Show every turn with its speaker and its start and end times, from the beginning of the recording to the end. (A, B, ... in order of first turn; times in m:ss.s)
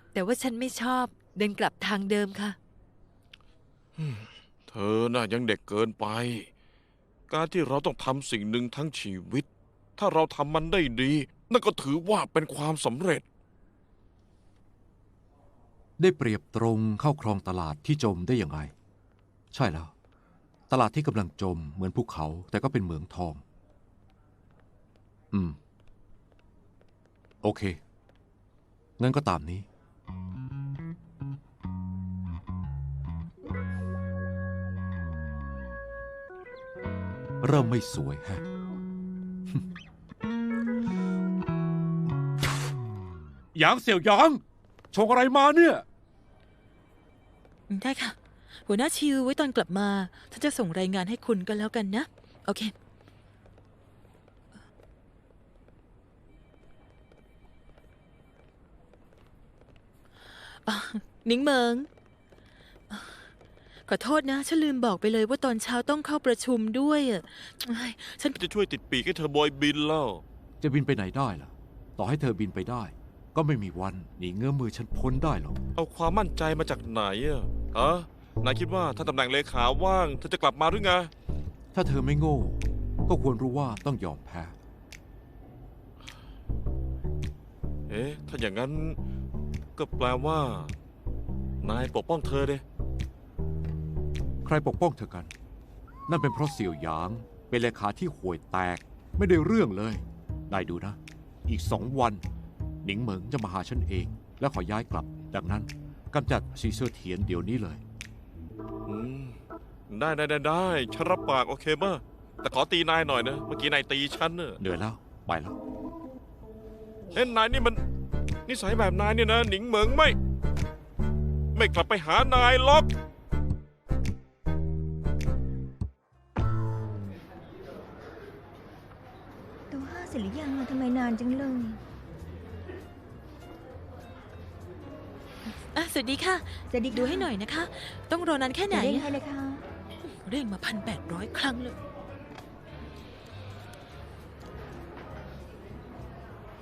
0:00.1-0:02.6 A
0:04.0-0:06.5 B
0:07.3-0:13.2 B
0:16.0-0:18.7 C
0:19.5-0:19.9 C
0:20.7-0:23.4 C
0:25.3-0:25.6 C
0:27.4-0:27.8 C
0:29.0-0:29.7 C
0:37.4-0:38.4 C
0:43.5-0:45.8 C
0:47.7-0:52.7 D
1:00.6-1:01.9 D
1:02.9-1:03.3 D
1:03.9-1:08.4 D
1:08.3-1:10.2 B
1:10.6-1:15.6 C
1:15.8-1:21.1 B
1:21.7-1:24.6 C
1:27.9-1:29.0 B
1:29.8-1:30.7 B
1:31.6-1:32.6 B
1:34.4-1:35.3 C
1:36.1-1:42.2 C
1:42.8-1:47.8 C
1:48.9-1:49.4 B
1:49.9-1:54.6 B
1:54.6-1:55.6 C
1:57.1-1:57.8 B
1:58.5-2:00.2 B
2:01.5-2:02.9 B
2:09.7-2:11.8 E
2:15.5-2:19.1 D
2:16.7-2:17.3 E
2:18.7-2:19.6 E
2:20.0-2:21.8 D